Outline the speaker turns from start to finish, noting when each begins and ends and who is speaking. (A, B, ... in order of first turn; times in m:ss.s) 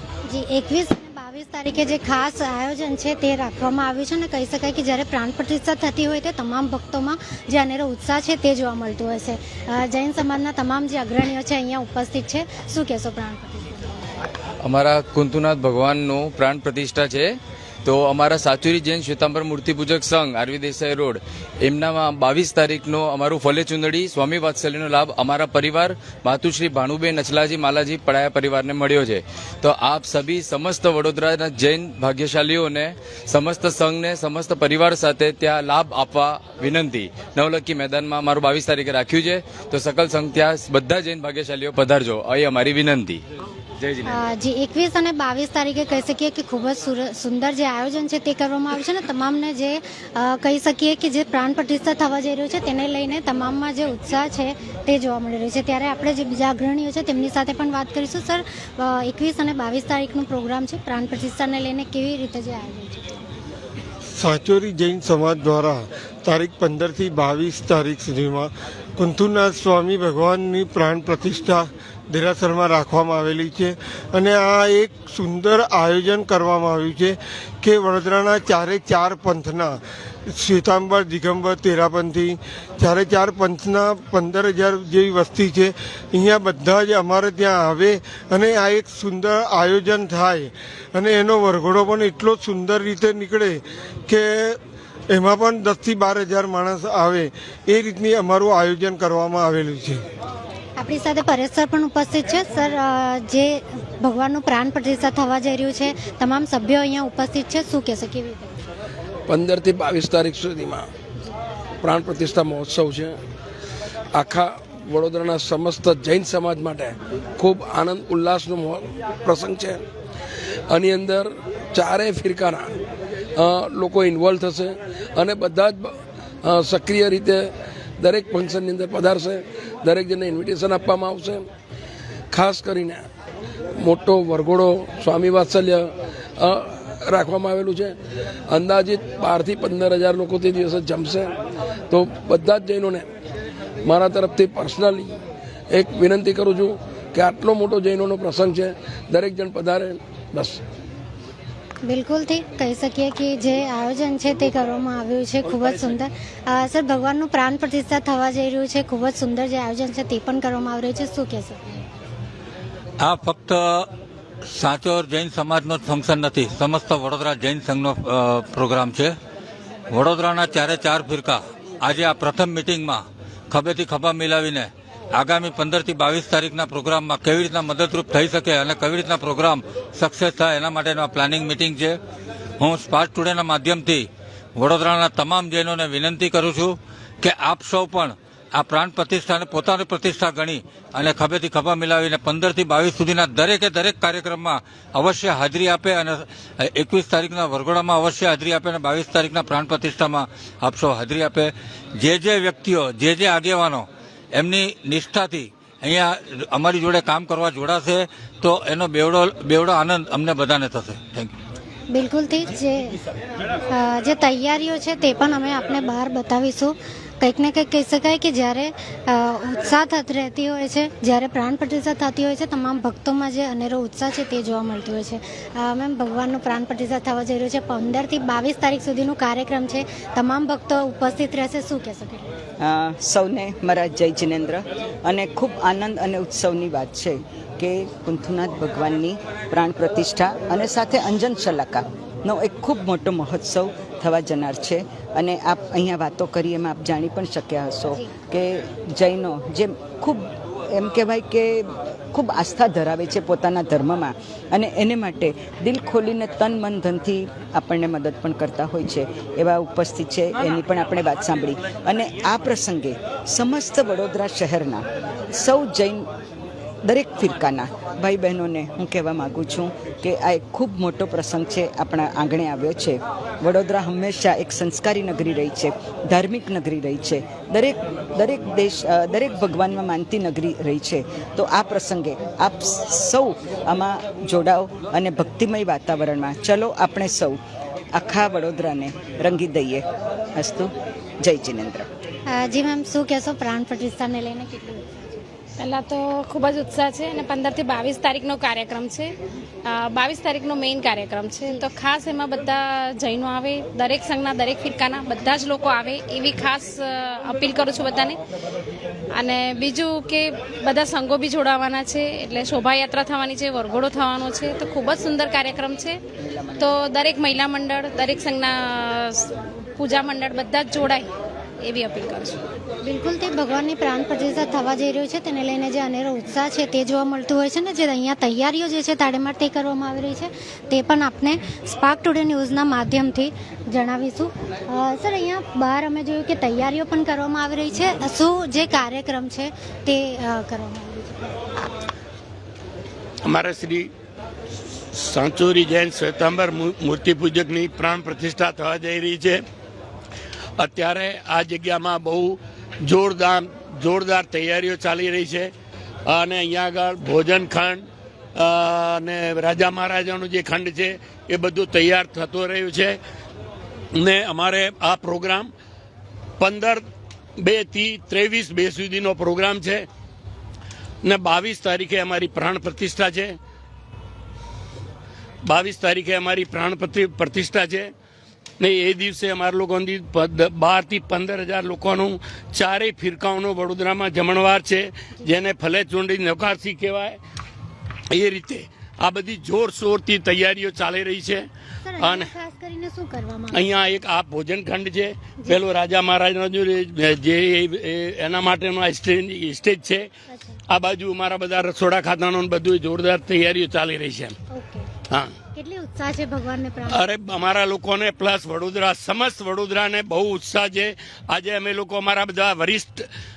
0:00.3-0:14.0 A
0:14.6-0:43.2 B
0:44.0-1:03.1 A
1:04.1-1:34.6 C
1:35.1-1:40.0 C
1:40.8-1:48.6 A
1:49.3-1:50.9 D
1:51.8-1:53.2 D
1:54.1-1:59.8 D
2:00.7-2:02.7 D
2:03.4-2:11.5 D
2:12.3-2:13.0 D
2:13.8-2:18.0 D
2:18.5-2:21.3 D
2:21.9-2:23.0 D
2:23.8-2:25.2 D
2:25.7-2:30.6 D
2:31.8-2:41.8 A
2:43.0-2:43.9 E
2:44.5-2:49.2 E
2:49.9-3:02.0 E
3:02.6-3:31.3 E
3:31.9-3:33.0 A
3:33.7-3:52.3 A
3:52.6-4:26.1 F
4:26.8-4:47.4 F
4:47.9-4:49.8 F
4:50.4-4:51.9 F
4:52.3-4:55.2 A
4:55.6-4:59.1 G
4:59.6-5:08.2 G
5:09.1-5:16.0 G
5:16.3-5:16.7 F
5:16.6-5:22.4 G
5:22.8-5:41.4 A
5:43.3-5:43.9 H
5:44.9-5:49.4 H
5:50.6-5:55.5 H
5:56.1-6:03.0 H
6:04.0-6:05.5 H
6:06.4-6:06.8 H
6:07.4-6:09.9 H
6:11.0-6:13.4 H
6:15.4-6:17.9 H
6:18.6-6:27.2 H
6:28.1-6:31.4 H
6:31.8-6:33.6 A
6:32.0-6:32.3 H
6:33.6-6:40.1 H
6:40.3-6:40.6 A
6:40.7-6:44.3 H
6:44.5-6:44.9 A
6:45.5-6:47.1 A
6:46.9-6:53.0 H